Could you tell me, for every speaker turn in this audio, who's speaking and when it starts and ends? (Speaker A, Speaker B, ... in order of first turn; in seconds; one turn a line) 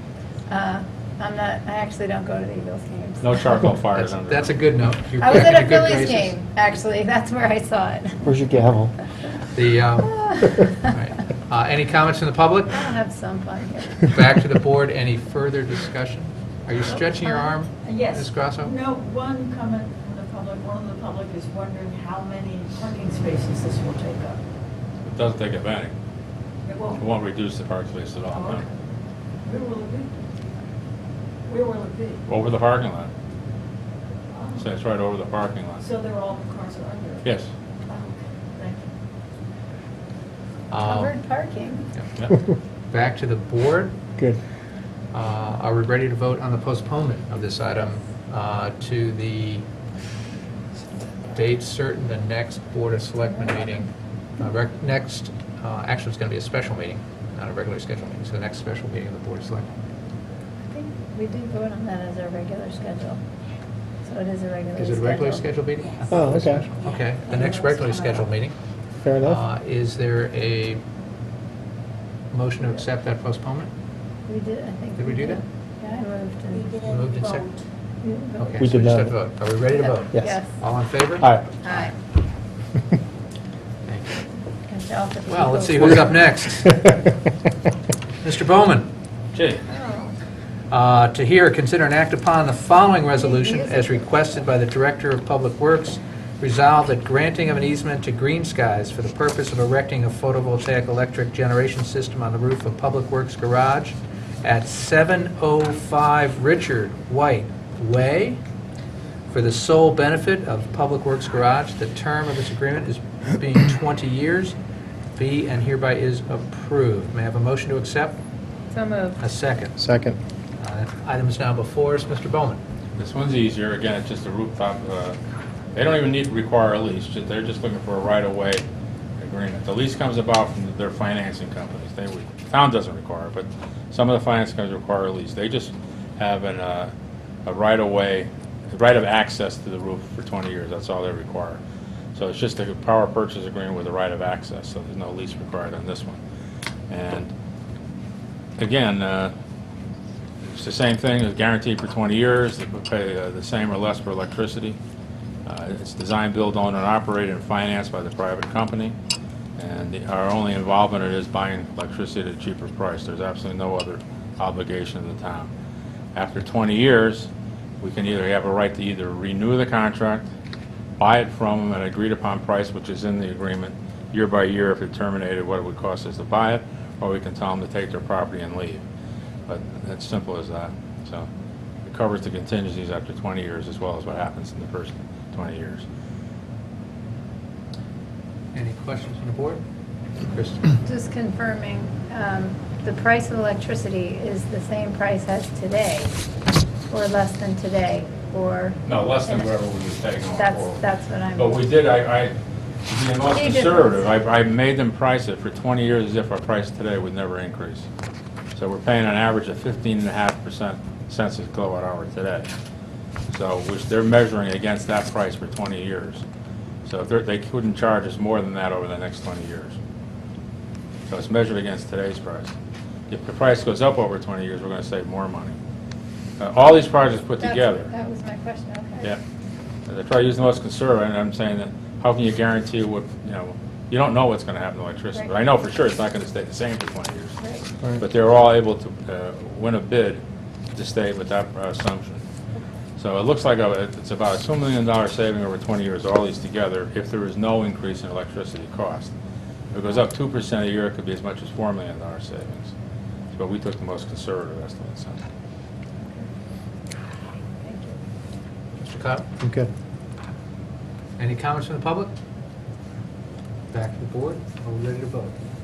Speaker A: 0.5-3.6
Speaker B: 3.2-4.6
Speaker C: 3.9-6.3
Speaker A: 5.2-8.3
Speaker D: 8.2-8.9
Speaker C: 9.5-12.8
Speaker A: 10.1-10.9
Speaker A: 12.7-14.1
Speaker C: 14.1-18.8
Speaker A: 16.9-17.5
Speaker E: 17.8-24.4
Speaker B: 25.0-25.9
Speaker E: 26.6-27.0
Speaker B: 26.9-28.6
Speaker E: 28.4-28.6
Speaker E: 29.4-30.2
Speaker E: 31.4-32.2
Speaker B: 32.3-33.1
Speaker E: 34.3-34.6
Speaker B: 34.6-35.8
Speaker E: 35.8-37.2
Speaker B: 37.2-37.5
Speaker E: 37.9-38.9
Speaker C: 40.7-41.1
Speaker A: 40.8-41.9
Speaker C: 42.9-44.0
Speaker C: 45.1-49.6
Speaker C: 51.3-59.7
Speaker A: 60.7-63.2
Speaker A: 64.0-65.4
Speaker C: 64.8-68.6
Speaker D: 66.1-66.7
Speaker A: 67.3-68.3
Speaker D: 69.0-69.4
Speaker C: 69.2-70.8
Speaker C: 72.3-73.7
Speaker A: 74.2-76.8
Speaker C: 75.0-75.4
Speaker C: 76.8-77.5
Speaker A: 78.0-78.5
Speaker C: 78.3-81.9
Speaker D: 78.6-79.2
Speaker A: 79.8-80.5
Speaker D: 81.2-81.5
Speaker A: 81.6-82.0
Speaker C: 83.8-84.2
Speaker A: 84.7-86.2
Speaker C: 85.3-87.0
Speaker C: 88.2-88.9
Speaker B: 89.3-89.6
Speaker A: 89.7-90.1
Speaker C: 90.7-108.4
Speaker A: 93.1-94.4
Speaker C: 109.3-114.5
Speaker C: 115.1-118.2
Speaker A: 118.7-119.2
Speaker C: 119.2-119.8
Speaker D: 119.8-120.2
Speaker C: 120.6-122.6
Speaker B: 123.0-125.2
Speaker B: 125.8-128.6
Speaker B: 129.2-136.9
Speaker B: 137.4-141.6
Speaker B: 142.1-146.2
Speaker B: 146.9-147.3
Speaker B: 148.6-149.3
Speaker B: 150.4-154.8
Speaker B: 155.4-158.9
Speaker B: 159.6-165.5
Speaker B: 166.1-167.3
Speaker B: 167.8-170.3
Speaker B: 171.0-178.8
Speaker B: 179.5-181.3
Speaker B: 181.8-185.8
Speaker C: 188.5-189.6
Speaker C: 190.2-190.8
Speaker A: 190.8-196.2
Speaker A: 196.9-199.5
Speaker B: 198.9-200.8
Speaker A: 200.3-201.7
Speaker B: 201.3-202.3
Speaker B: 202.9-207.8
Speaker A: 203.3-204.1
Speaker B: 208.5-212.5
Speaker B: 213.3-216.2
Speaker B: 216.8-219.8
Speaker B: 221.1-222.5
Speaker B: 223.1-225.6
Speaker B: 226.4-227.9
Speaker A: 227.4-229.2
Speaker B: 229.9-237.4
Speaker A: 237.4-237.7
Speaker B: 237.9-240.2
Speaker B: 240.7-242.2
Speaker B: 243.0-249.1
Speaker B: 249.7-252.7
Speaker B: 253.3-255.2
Speaker A: 257.6-258.0
Speaker C: 258.8-259.3
Speaker D: 259.4-259.7
Speaker C: 261.2-262.1
Speaker C: 263.7-265.3